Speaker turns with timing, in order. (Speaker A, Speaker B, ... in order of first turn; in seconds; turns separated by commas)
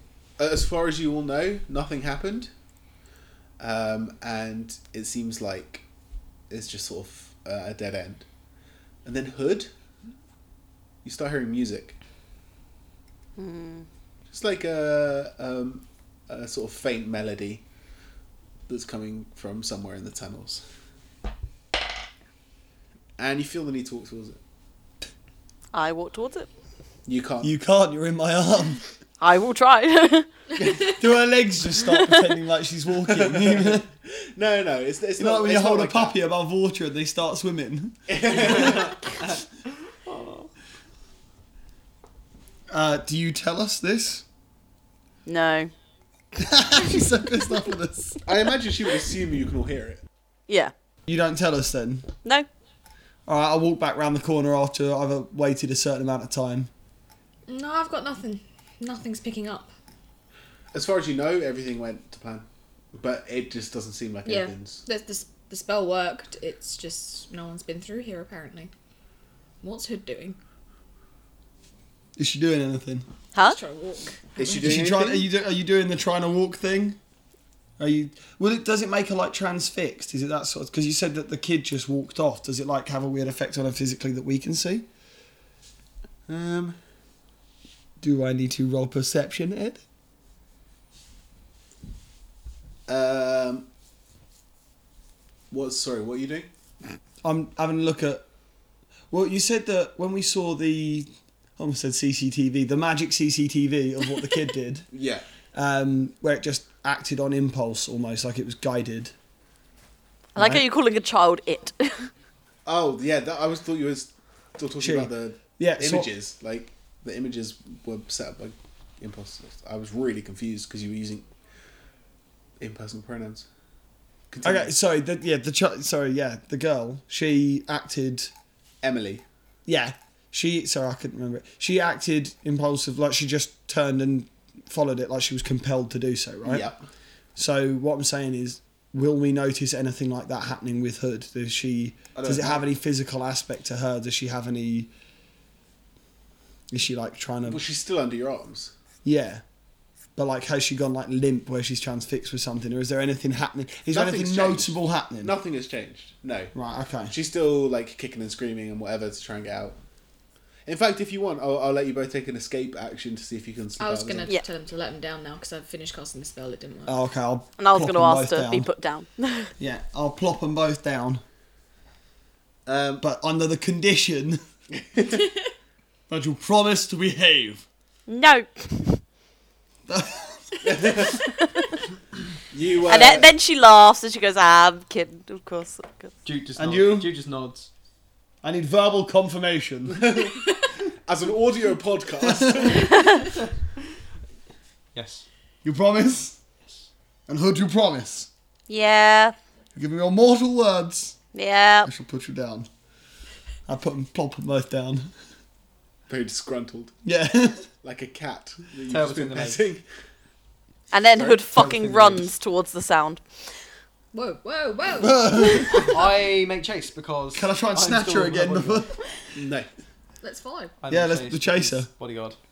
Speaker A: 0.4-2.5, Speaker A: 3.6-5.8, Speaker A: 6.5-8.2, Speaker A: 9.1-9.7, Speaker A: 11.0-12.0, Speaker B: 13.4-13.9, Speaker A: 14.3-17.6, Speaker A: 18.7-20.6, Speaker A: 23.2-24.4, Speaker B: 25.7-26.5, Speaker A: 27.1-27.5, Speaker C: 27.4-28.8, Speaker B: 29.2-30.3, Speaker D: 30.6-31.0, Speaker C: 30.8-33.9, Speaker B: 31.8-32.3, Speaker A: 33.1-36.2, Speaker C: 35.2-38.0, Speaker A: 38.1-39.2, Speaker E: 40.1-40.5, Speaker C: 42.7-44.2, Speaker B: 45.2-45.7, Speaker C: 46.4-48.2, Speaker A: 48.3-50.0, Speaker B: 50.5-50.7, Speaker C: 51.1-52.1, Speaker C: 53.3-56.7, Speaker D: 57.5-59.7, Speaker A: 60.7-64.8, Speaker D: 64.2-68.7, Speaker D: 69.6-70.4, Speaker C: 72.2-73.0, Speaker D: 73.4-74.7, Speaker A: 74.3-75.3, Speaker C: 74.5-77.0, Speaker C: 77.8-84.9, Speaker A: 86.3-86.8, Speaker C: 88.0-89.8, Speaker A: 92.9-93.7, Speaker A: 95.5-96.5, Speaker C: 97.2-98.2, Speaker C: 99.1-104.9, Speaker A: 104.9-105.2, Speaker C: 105.5-109.1, Speaker B: 110.3-112.1, Speaker C: 110.4-110.7, Speaker A: 112.7-121.3, Speaker C: 114.8-116.1, Speaker A: 122.6-123.5, Speaker A: 124.3-124.7, Speaker C: 124.4-128.3, Speaker A: 128.8-129.2, Speaker C: 129.7-136.7, Speaker A: 136.4-136.8, Speaker C: 137.4-144.9, Speaker A: 142.2-142.7, Speaker C: 146.7-147.6, Speaker A: 147.5-148.7, Speaker C: 149.1-149.4, Speaker C: 150.2-155.3, Speaker A: 153.9-156.5, Speaker C: 156.5-157.1, Speaker A: 157.1-159.8, Speaker A: 160.7-164.3, Speaker D: 163.8-167.0, Speaker C: 166.9-168.7, Speaker B: 167.6-169.5, Speaker C: 169.6-171.2, Speaker A: 172.7-173.0, Speaker C: 173.0-174.4, Speaker A: 174.8-175.3, Speaker C: 176.1-177.6, Speaker B: 178.1-179.0, Speaker C: 179.9-180.9, Speaker A: 180.6-181.2, Speaker B: 181.1-181.7, Speaker A: 182.5-183.3, Speaker B: 182.9-186.2, Speaker E: 186.2-187.7, Speaker C: 186.6-187.1, Speaker C: 188.4-190.1, Speaker A: 189.9-190.4, Speaker A: 191.1-192.9, Speaker C: 192.3-192.8, Speaker B: 192.8-193.3, Speaker E: 194.9-195.2, Speaker C: 195.6-196.4, Speaker C: 197.3-198.3, Speaker B: 198.7-199.3, Speaker C: 199.8-201.2, Speaker B: 201.3-201.9, Speaker C: 201.8-202.7, Speaker C: 203.7-205.1, Speaker A: 206.1-206.9, Speaker C: 207.0-207.7, Speaker A: 207.8-209.8, Speaker E: 208.9-209.7, Speaker B: 210.9-213.2, Speaker A: 211.2-211.4, Speaker C: 211.5-212.2, Speaker E: 211.6-212.2, Speaker D: 214.1-215.9, Speaker C: 215.0-216.0, Speaker E: 215.8-218.9, Speaker C: 217.3-219.0, Speaker A: 219.3-219.7, Speaker D: 220.2-220.8, Speaker E: 220.8-222.4, Speaker C: 220.9-221.9